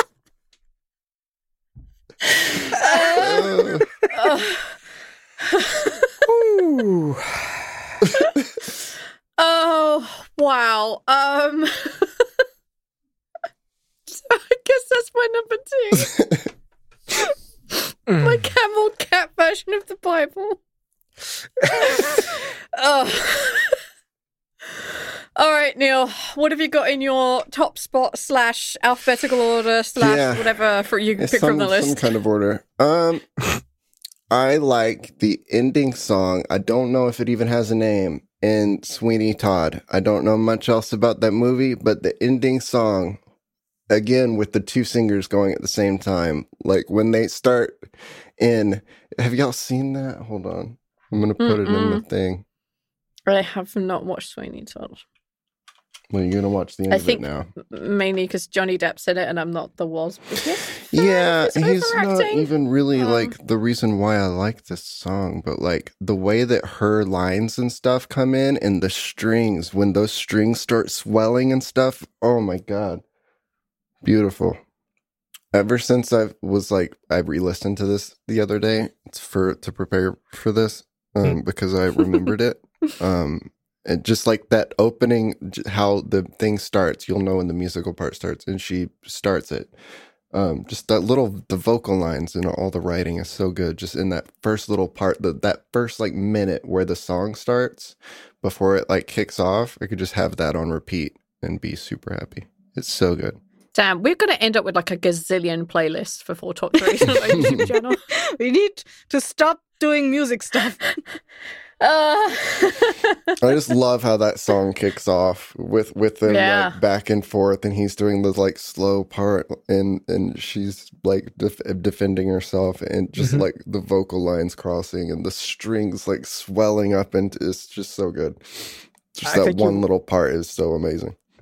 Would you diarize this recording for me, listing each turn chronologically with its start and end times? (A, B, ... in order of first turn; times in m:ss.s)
0:02.8-0:03.5 A
0:03.2-0:03.9 B
0:04.1-0:04.7 A
0:05.5-0:06.0 A
0:06.3-0:07.7 C
0:09.4-0:12.2 A
0:14.1-0:16.2 A
0:18.1-0:18.4 C
0:18.2-0:20.6 A
0:21.7-0:23.8 A
0:25.4-0:32.0 A
0:30.0-0:30.6 B
0:31.2-0:33.6 B
0:34.3-0:43.2 B
0:43.9-0:52.4 B
0:51.4-0:52.0 A
0:53.3-0:55.0 A
0:56.1-0:57.5 B
0:56.9-1:03.3 A
1:00.9-1:13.0 B
1:14.0-1:14.6 B
1:15.5-1:29.7 B
1:30.3-1:43.4 B
1:43.7-1:48.0 A
1:48.1-1:51.0 D
1:51.8-1:53.1 A
1:53.4-2:11.2 B
1:56.3-1:56.8 A
2:03.2-2:03.4 C
2:09.2-2:09.8 C